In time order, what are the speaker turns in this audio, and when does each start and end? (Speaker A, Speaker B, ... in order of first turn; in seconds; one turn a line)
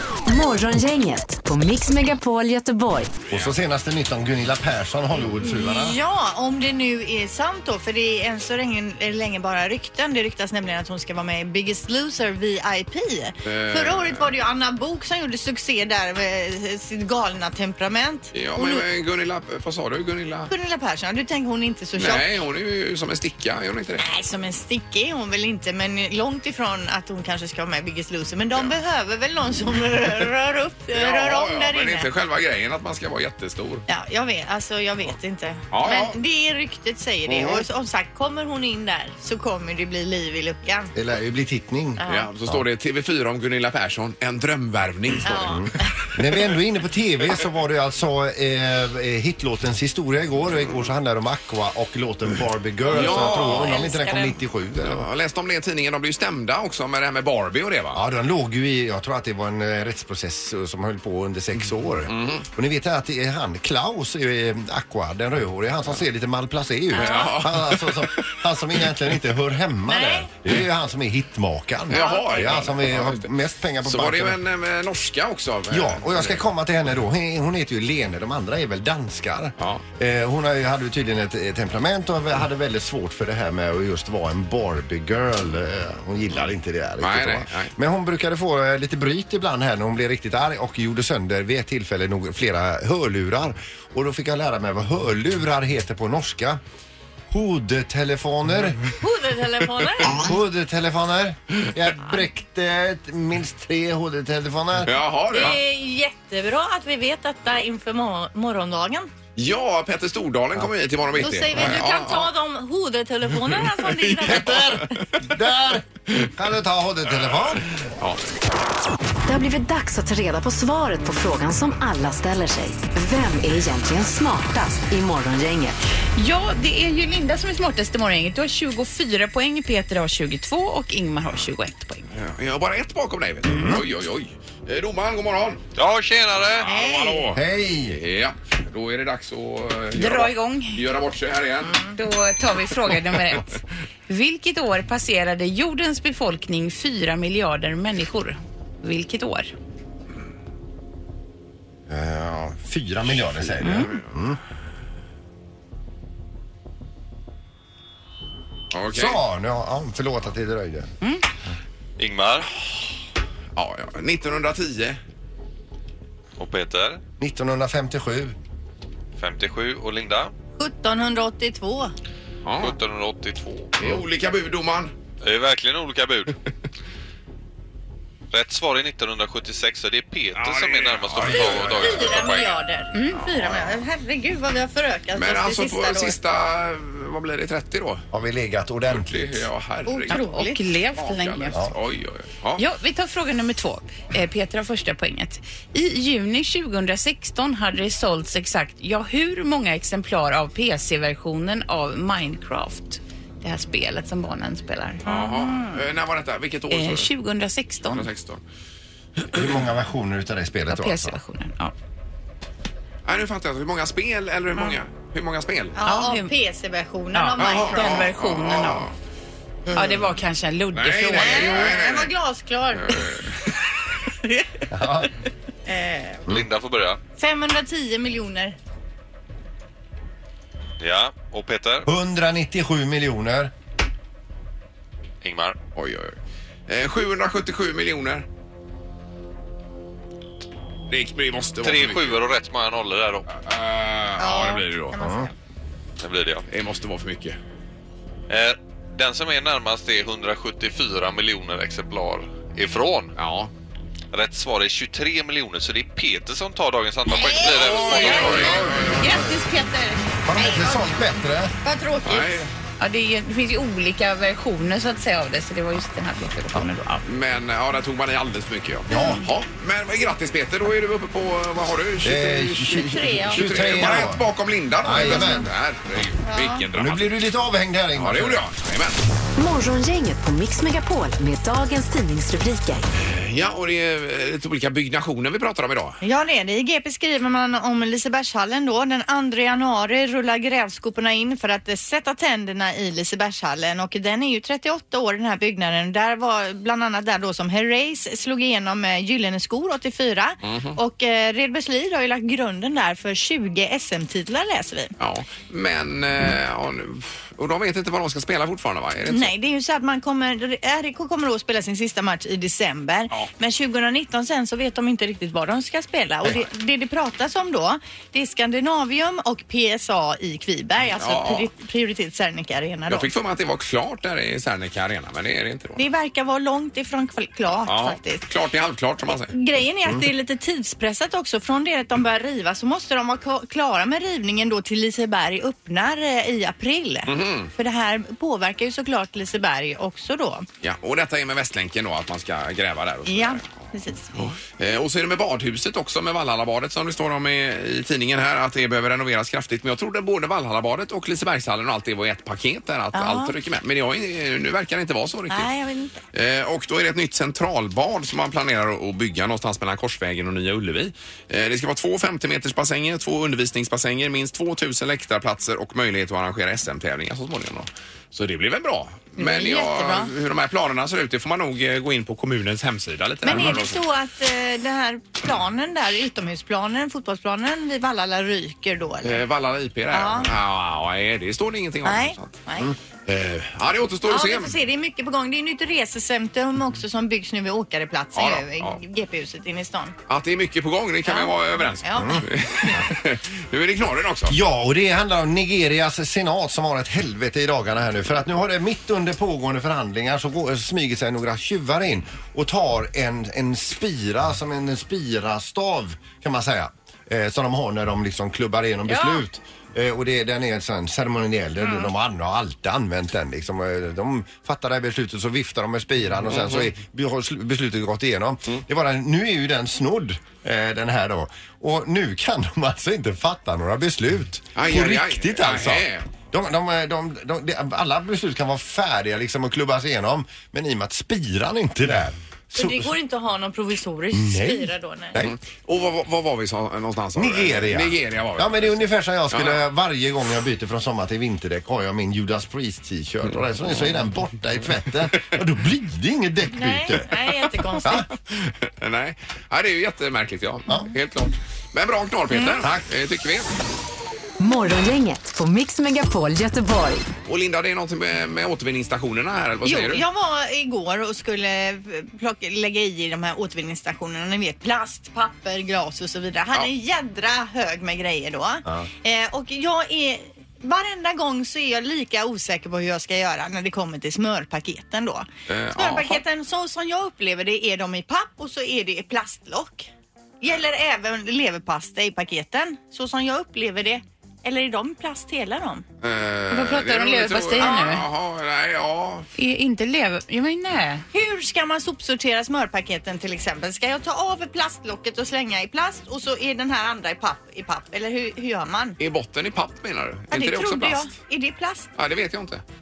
Speaker A: 0.3-3.1
Speaker B: 3.3-6.0
Speaker C: 5.4-18.9
Speaker D: 13.4-14.3
Speaker D: 18.3-20.5
Speaker C: 20.5-22.3
Speaker D: 21.9-24.0
Speaker C: 24.0-32.1
Speaker D: 30.9-33.9
Speaker C: 33.9-40.9
Speaker D: 35.7-36.2
Speaker D: 37.3-37.6
Speaker B: 41.0-42.6
Speaker C: 42.0-42.3
Speaker D: 42.1-45.6
Speaker C: 45.2-45.9
Speaker B: 45.3-55.1
Speaker C: 52.9-54.4
Speaker D: 52.9-54.0
Speaker D: 54.8-58.0
Speaker B: 57.9-74.4
Speaker D: 62.1-62.5
Speaker C: 66.9-67.4
Speaker D: 67.0-68.3
Speaker C: 69.9-70.3
Speaker D: 71.9-73.3
Speaker C: 71.9-72.6
Speaker D: 73.8-76.5
Speaker B: 75.7-96.6
Speaker D: 79.6-79.8
Speaker D: 87.0-87.7
Speaker B: 97.3-98.9
Speaker C: 99.0-100.2
Speaker B: 100.1-105.0
Speaker D: 104.8-105.6
Speaker C: 105.3-109.1
Speaker D: 109.4-112.3
Speaker C: 111.2-115.0
Speaker D: 113.8-115.3
Speaker B: 115.2-117.7
Speaker A: 119.3-125.8
Speaker E: 126.2-132.1
Speaker D: 132.1-135.6
Speaker B: 133.5-133.8
Speaker F: 135.8-136.7
Speaker D: 136.4-141.8
Speaker C: 136.6-137.3
Speaker B: 137.3-138.0
Speaker E: 139.9-140.8
Speaker C: 141.7-141.9
Speaker E: 141.9-149.5
Speaker B: 151.9-154.4
Speaker D: 153.2-154.1
Speaker D: 158.7-159.2
Speaker B: 158.9-160.9
Speaker F: 162.0-162.5
Speaker D: 163.6-165.0
Speaker F: 166.4-167.0
Speaker B: 167.2-168.3
Speaker F: 169.2-170.3
Speaker C: 170.6-171.9
Speaker D: 172.5-172.7
Speaker F: 172.6-174.0
Speaker D: 173.8-174.9
Speaker F: 175.2-176.4
Speaker F: 178.3-182.6
Speaker D: 180.3-182.4
Speaker C: 181.3-186.2
Speaker E: 182.9-183.2
Speaker D: 183.2-183.8
Speaker D: 185.2-188.1
Speaker B: 188.1-189.5
Speaker D: 188.9-190.4
Speaker C: 189.9-190.6
Speaker E: 190.1-191.6
Speaker D: 190.9-192.6
Speaker E: 192.6-205.1
Speaker D: 205.1-207.1
Speaker C: 205.1-205.6
Speaker E: 206.7-208.1
Speaker D: 207.8-208.4
Speaker B: 209.3-211.2
Speaker E: 210.7-211.7
Speaker D: 213.1-215.8
Speaker C: 215.8-218.1
Speaker E: 215.8-216.3
Speaker E: 217.1-218.9
Speaker D: 217.4-218.9
Speaker E: 219.7-221.7
Speaker D: 220.7-222.2
Speaker C: 221.1-223.2
Speaker D: 222.7-223.4
Speaker B: 224.7-225.1
Speaker C: 225.7-226.2
Speaker F: 226.3-227.0
Speaker C: 227.2-228.6
Speaker F: 230.8-231.9
Speaker B: 231.8-233.5
Speaker F: 235.2-235.6
Speaker D: 235.8-236.2
Speaker D: 236.7-238.2
Speaker D: 240.9-242.2
Speaker F: 241.6-243.3
Speaker D: 243.3-245.0
Speaker C: 244.2-245.3
Speaker B: 245.0-245.3
Speaker F: 246.0-246.4
Speaker D: 246.5-247.4
Speaker F: 248.3-253.1
Speaker D: 253.2-253.5
Speaker F: 254.1-258.7
Speaker C: 257.1-261.0
Speaker D: 257.4-259.3
Speaker B: 260.2-261.5
Speaker C: 261.6-262.5
Speaker D: 262.1-262.5
Speaker E: 262.8-267.0
Speaker D: 267.1-277.2
Speaker C: 268.9-269.2
Speaker B: 272.0-274.3
Speaker C: 272.7-273.4
Speaker B: 274.8-275.5
Speaker C: 276.2-276.6
Speaker B: 276.8-278.4
Speaker D: 277.9-279.0
Speaker A: 279.4-282.8
Speaker D: 283.0-286.0
Speaker C: 286.0-304.9
Speaker D: 300.4-300.8
Speaker D: 305.0-309.3
Speaker C: 309.1-323.1
Speaker D: 321.0-321.5
Speaker D: 322.9-325.8
Speaker C: 325.8-328.2
Speaker D: 327.7-329.3
Speaker C: 329.3-340.5
Speaker D: 337.1-337.5
Speaker D: 340.6-343.6
Speaker C: 343.1-344.1
Speaker D: 344.1-355.5
Speaker C: 352.9-353.3
Speaker C: 355.3-356.0
Speaker D: 356.1-373.8
Speaker C: 369.2-370.1
Speaker C: 373.2-379.2
Speaker D: 379.0-382.4
Speaker C: 379.9-380.3
Speaker C: 381.8-382.7
Speaker D: 383.1-384.6
Speaker C: 384.1-389.9
Speaker D: 388.1-388.8
Speaker D: 390.1-394.4
Speaker C: 391.1-392.2
Speaker B: 392.0-392.2
Speaker B: 394.3-432.9
Speaker C: 408.9-409.2
Speaker D: 416.3-416.7
Speaker D: 424.6-426.1
Speaker C: 432.6-435.2
Speaker B: 434.1-435.3
Speaker D: 435.2-439.6
Speaker B: 437.2-447.1
Speaker C: 446.5-448.1
Speaker D: 448.3-453.5
Speaker C: 452.3-452.6
Speaker A: 454.4-457.1
Speaker D: 457.3-460.0
Speaker C: 459.6-479.9
Speaker D: 475.5-476.2
Speaker C: 480.4-485.9
Speaker D: 486.0-489.3
Speaker E: 486.5-488.1
Speaker C: 487.6-487.9
Speaker E: 489.4-491.0
Speaker C: 491.1-499.0
Speaker D: 499.0-501.1
Speaker C: 500.3-501.9
Speaker D: 502.0-502.6